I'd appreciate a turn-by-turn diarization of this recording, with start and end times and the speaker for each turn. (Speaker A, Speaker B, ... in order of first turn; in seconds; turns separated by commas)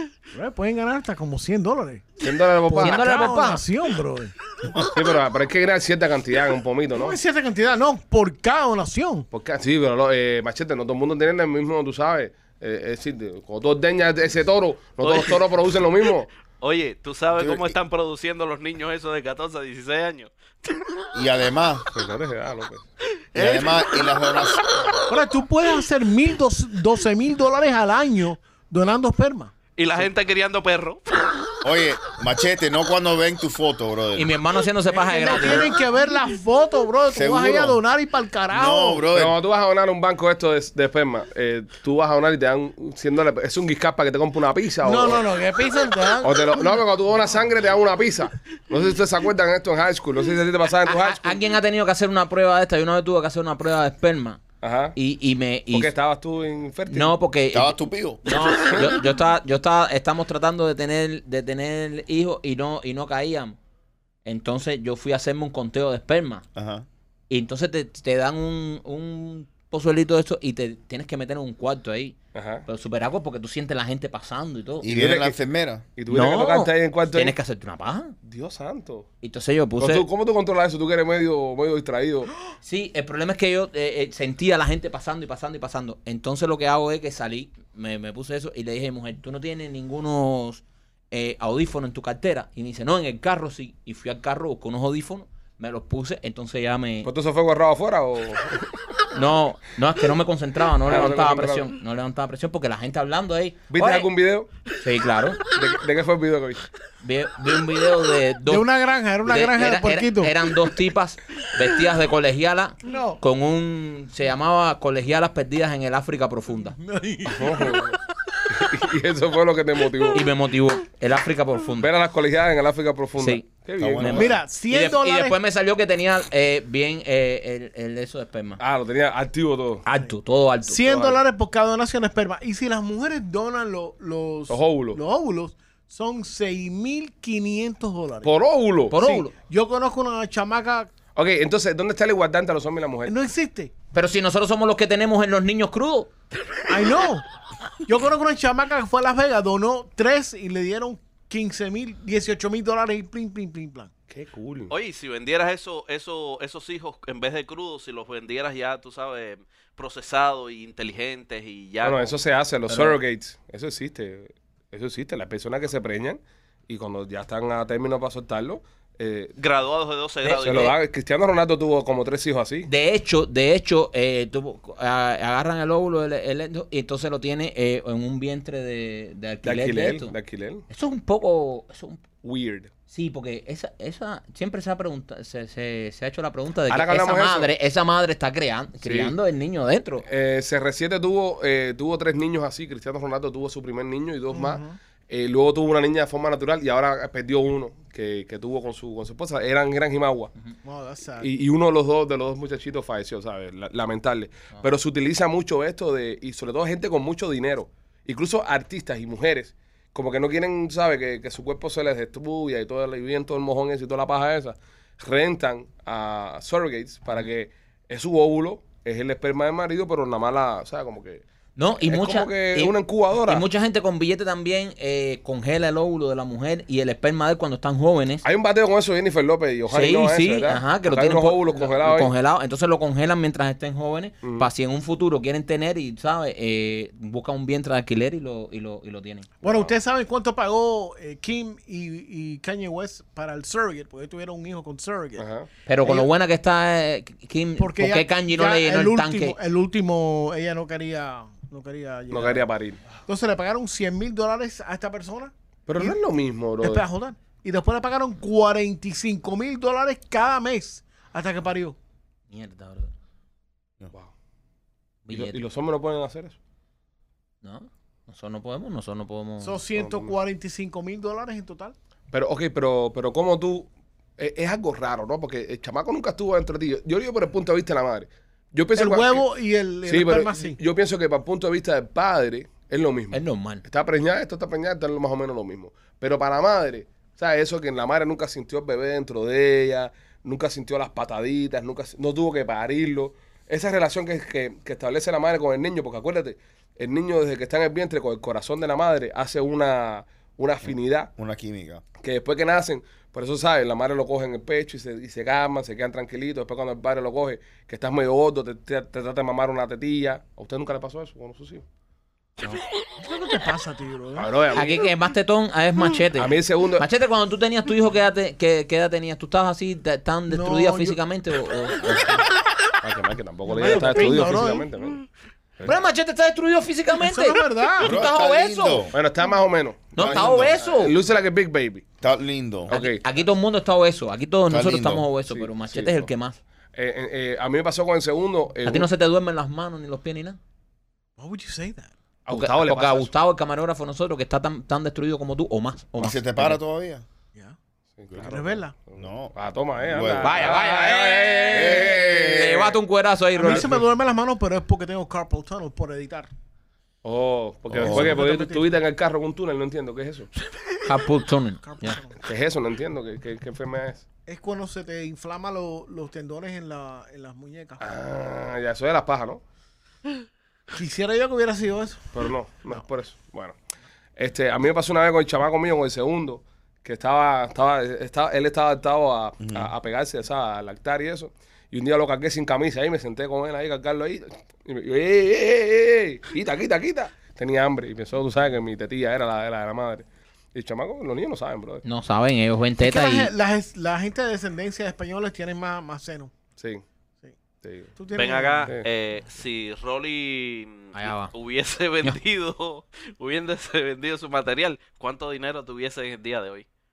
Speaker A: 0.3-4.8, Speaker B: 2.2-3.1, Speaker C: 2.8-3.6, Speaker B: 4.8-7.2, Speaker A: 6.9-9.3, Speaker B: 9.3-16.3, Speaker D: 15.0-15.5, Speaker D: 16.5-20.3, Speaker E: 17.4-17.8, Speaker E: 21.1-21.9, Speaker B: 21.9-22.9, Speaker E: 23.3-24.8, Speaker A: 25.1-29.6, Speaker D: 29.8-31.4, Speaker E: 31.6-34.4, Speaker C: 34.1-35.7, Speaker A: 34.9-39.1, Speaker E: 37.1-37.8, Speaker E: 38.5-39.4, Speaker B: 39.1-45.2, Speaker A: 44.8-46.9, Speaker B: 46.2-51.4, Speaker C: 50.9-54.4, Speaker B: 54.6-55.0, Speaker C: 55.0-55.9, Speaker B: 55.7-57.1, Speaker C: 56.9-63.6, Speaker E: 57.5-58.4, Speaker C: 64.2-66.5, Speaker E: 66.5-66.9, Speaker C: 67.3-75.2, Speaker B: 72.3-72.7, Speaker E: 74.8-75.9, Speaker B: 74.9-75.3, Speaker B: 76.0-77.4, Speaker C: 76.1-78.2, Speaker B: 78.2-79.1, Speaker C: 79.2-80.1, Speaker B: 79.8-82.3, Speaker C: 82.6-97.1, Speaker B: 97.0-98.8, Speaker C: 99.1-104.1, Speaker B: 100.8-101.7, Speaker B: 103.7-104.5, Speaker C: 104.8-105.4, Speaker B: 105.5-106.6, Speaker C: 107.0-108.7, Speaker A: 108.5-110.4, Speaker C: 109.2-116.8, Speaker A: 112.8-113.2, Speaker A: 116.8-117.9, Speaker B: 117.3-118.0, Speaker B: 118.5-120.2, Speaker C: 120.1-121.9, Speaker B: 121.8-124.3, Speaker C: 123.2-128.6, Speaker E: 123.8-124.4, Speaker A: 124.1-125.4, Speaker B: 128.6-129.8, Speaker C: 129.8-130.8, Speaker A: 130.7-138.4, Speaker B: 130.9-131.2, Speaker B: 134.5-135.0, Speaker B: 138.2-139.0, Speaker C: 138.9-139.3, Speaker A: 138.9-140.9, Speaker B: 141.2-143.2, Speaker A: 143.1-143.7, Speaker C: 143.9-146.1, Speaker A: 146.7-147.2, Speaker A: 147.9-153.9, Speaker B: 154.1-154.7, Speaker D: 154.7-162.2, Speaker B: 161.8-169.4, Speaker C: 162.7-163.0, Speaker D: 169.4-170.7, Speaker C: 170.2-170.8, Speaker B: 170.4-172.7, Speaker C: 172.7-180.2, Speaker B: 179.4-180.7, Speaker C: 180.7-182.0, Speaker B: 182.2-182.7, Speaker C: 182.9-190.1, Speaker B: 186.7-187.5, Speaker B: 188.8-189.2, Speaker B: 190.1-200.3, Speaker A: 194.3-194.8, Speaker A: 200.6-201.3, Speaker B: 201.2-221.2, Speaker C: 221.6-228.2, Speaker B: 221.8-223.4, Speaker B: 228.2-232.1, Speaker C: 229.7-239.3, Speaker B: 234.2-234.5, Speaker B: 239.4-239.7, Speaker A: 239.4-245.3, Speaker B: 245.2-245.5, Speaker C: 245.7-249.4, Speaker A: 245.8-246.1, Speaker A: 247.6-252.5, Speaker B: 252.1-252.8, Speaker A: 253.0-256.0, Speaker B: 255.7-256.9, Speaker A: 256.6-261.8, Speaker C: 262.3-262.9, Speaker C: 265.1-265.4, Speaker B: 265.1-266.4, Speaker C: 267.4-269.6, Speaker A: 269.4-271.8, Speaker B: 269.8-270.1, Speaker B: 272.1-279.2, Speaker A: 278.8-280.6, Speaker B: 279.9-301.1, Speaker C: 283.1-283.6, Speaker E: 300.7-301.8, Speaker B: 302.0-311.6, Speaker A: 313.0-314.3, Speaker B: 314.2-314.9, Speaker C: 314.5-322.2, Speaker B: 316.2-316.9, Speaker A: 320.3-321.0, Speaker B: 322.8-325.0, Speaker A: 323.5-324.7, Speaker C: 325.6-328.9, Speaker A: 326.9-328.0, Speaker E: 327.8-329.0, Speaker B: 328.9-331.9, Speaker C: 329.9-331.0, Speaker E: 330.0-330.6, Speaker E: 332.0-332.7, Speaker B: 332.7-333.1, Speaker C: 332.7-336.4, Speaker E: 334.5-335.1, Speaker B: 335.3-336.1, Speaker B: 336.7-338.9, Speaker C: 338.6-340.4, Speaker A: 341.2-341.9, Speaker B: 342.3-343.1, Speaker C: 342.3-346.6, Speaker E: 346.0-347.1, Speaker B: 347.9-352.7, Speaker E: 348.1-350.6, Speaker A: 348.2-348.8, Speaker C: 350.2-353.7, Speaker E: 351.5-352.7, Speaker A: 353.4-356.3, Speaker B: 357.0-360.3, Speaker E: 357.7-358.2, Speaker A: 357.8-358.8, Speaker C: 360.9-362.0, Speaker A: 361.6-362.2, Speaker B: 362.2-364.1, Speaker A: 364.3-367.9, Speaker B: 367.8-369.4, Speaker A: 370.7-372.1, Speaker B: 372.1-373.6, Speaker B: 374.2-391.8, Speaker E: 379.4-379.7, Speaker C: 391.8-393.3, Speaker A: 392.8-396.3, Speaker B: 396.6-396.8, Speaker B: 397.6-397.9, Speaker A: 398.0-398.7, Speaker D: 398.1-406.7, Speaker C: 400.9-401.3